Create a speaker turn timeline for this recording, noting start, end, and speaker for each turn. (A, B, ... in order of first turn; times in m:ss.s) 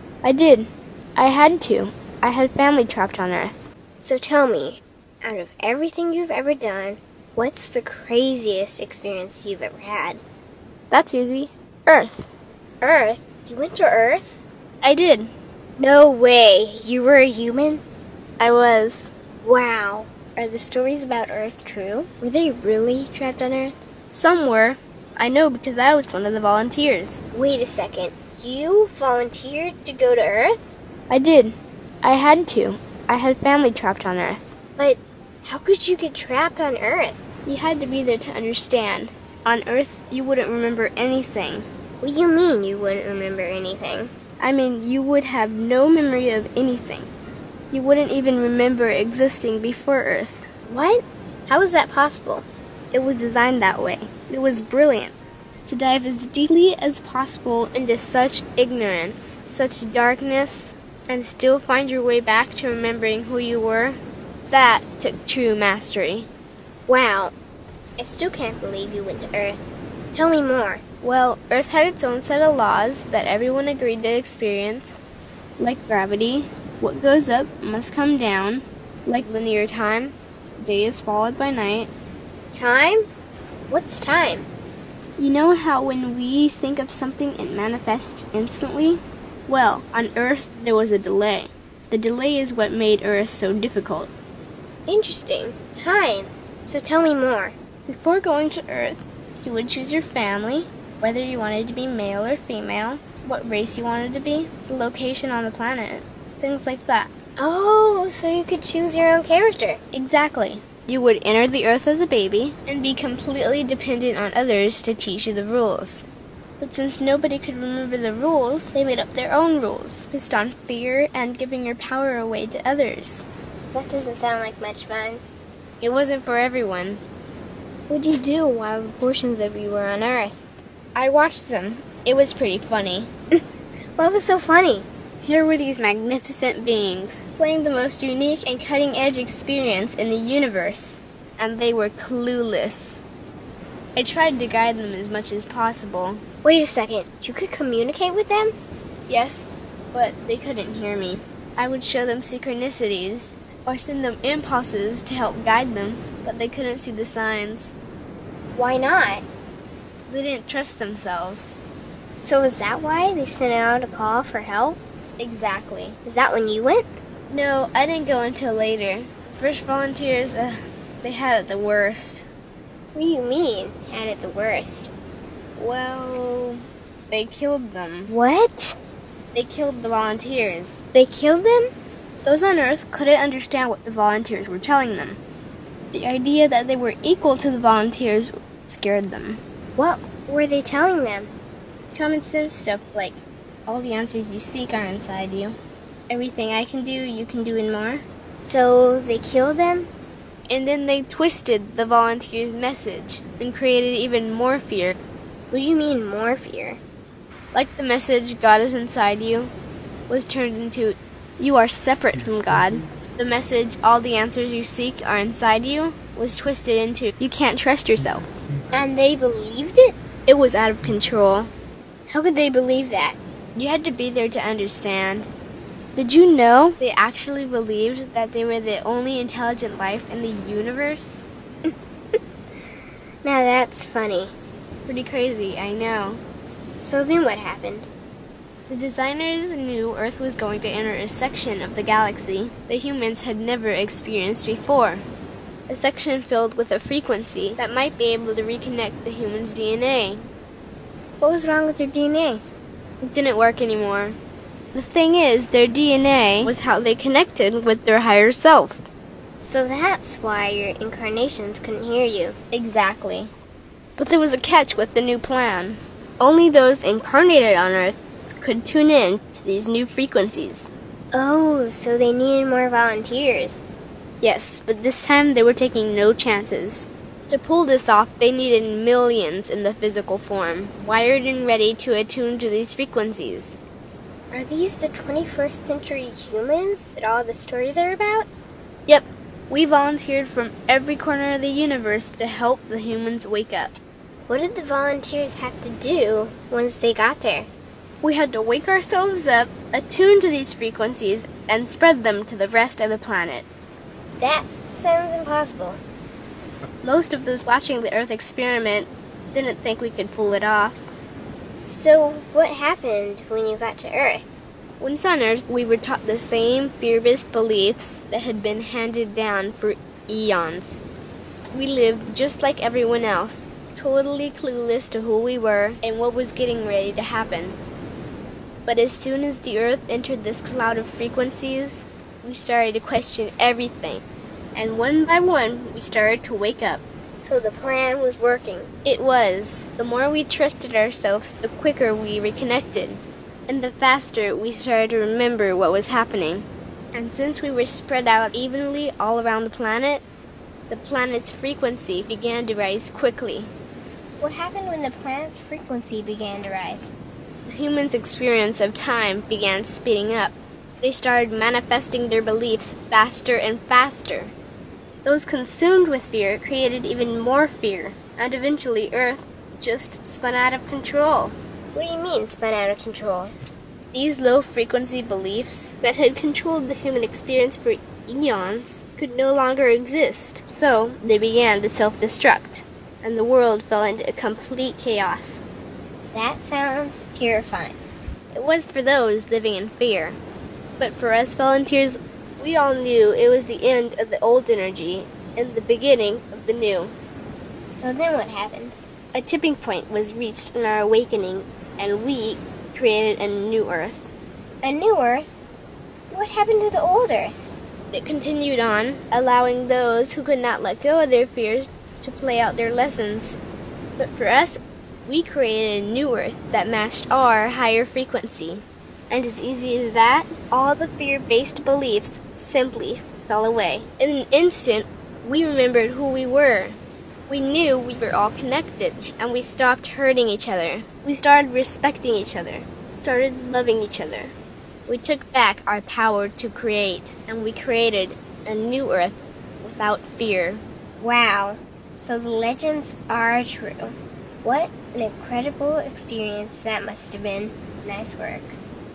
0:00.2-0:03.6 A
0:04.0-0:10.2 B
0:10.9-0:12.3 A
0:12.8-0:14.4 B
0:14.8-0:15.3 A
0:15.8-0:17.8 B
0:18.4-0:19.1 A
0:19.4-0:23.8 B
0:24.1-0:27.2 A
0:27.3-0:30.7 B
0:31.1-0:34.5 A
0:34.8-0:37.2 B
0:37.4-0:41.7 A
0:42.0-0:44.1 B
0:44.4-0:47.1 A
0:47.7-0:50.5 A
0:50.7-0:52.5 B
0:52.9-1:06.3 A
1:06.9-1:07.3 B
1:08.0-1:10.8 B
1:11.0-1:15.0 A
1:15.6-1:21.9 A
1:22.5-1:23.1 B
1:23.7-1:24.5 B
1:25.2-1:34.1 A
1:34.9-1:37.6 B
1:37.9-1:47.1 A
1:47.4-1:49.8 B
1:49.9-1:56.1 A
1:56.6-2:03.3 A
2:03.7-2:05.2 B
2:05.8-2:07.0 A
2:07.9-2:10.4 B
2:11.0-2:13.1 A
2:14.0-2:14.9 B
2:15.2-2:23.0 A
2:24.0-2:26.2 A
2:26.4-2:28.6 B
2:29.1-2:37.8 A
2:38.6-2:39.2 B
2:40.1-2:41.6 A
2:42.2-2:44.8 B
2:45.2-2:46.0 A
2:46.1-2:46.9 B
2:47.3-2:52.3 A
2:53.0-2:54.9 B
2:55.6-2:56.6 A
2:57.1-2:58.1 A
2:58.1-2:58.8 B
2:59.3-3:00.8 A
3:00.9-3:01.7 B
3:02.2-3:05.2 A
3:05.9-3:09.4 A
3:09.8-3:11.3 B
3:11.9-3:15.6 A
3:16.1-3:18.0 A
3:18.4-3:19.9 B
3:20.5-3:25.0 A
3:25.5-3:26.8 B
3:27.5-3:29.5 A
3:30.1-3:38.4 A
3:38.7-3:40.0 B
3:40.3-3:41.5 A
3:42.1-3:43.2 B
3:43.6-3:45.3 A
3:46.0-3:51.2 A
3:51.7-3:52.2 B
3:53.2-3:54.3 B
3:54.9-3:56.2 A
3:56.8-3:57.9 B
3:58.7-4:05.1 A
4:05.7-4:10.3 A
4:11.2-4:12.4 B
4:13.0-4:14.2 A
4:14.7-4:18.8 A
4:19.4-4:22.4 B
4:22.5-4:23.3 A
4:24.0-4:30.7 A
4:31.1-4:33.6 B
4:34.2-4:43.6 A
4:44.3-4:48.3 B
4:48.9-4:53.8 A
4:54.3-4:57.5 B
4:58.0-5:03.5 A
5:04.2-5:05.8 B
5:06.8-5:10.8 A
5:11.7-5:14.4 B
5:14.8-5:20.8 A
5:21.5-5:27.6 A
5:28.7-5:36.8 A
5:37.2-5:38.7 B
5:38.8-5:50.0 A
5:50.7-5:53.5 A
5:54.2-5:56.9 B
5:57.4-6:04.3 A
6:05.0-6:11.4 A
6:11.7-6:13.3 B
6:13.9-6:25.4 A
6:26.1-6:27.8 B
6:28.3-6:30.2 A
6:30.8-6:37.0 A
6:37.7-6:38.8 B
6:39.1-6:44.1 A
6:44.6-6:45.4 B
6:46.1-6:47.4 B
6:47.9-6:53.4 A
6:54.0-7:06.8 A
7:07.3-7:14.3 A
7:14.9-7:20.6 A
7:21.0-7:28.6 B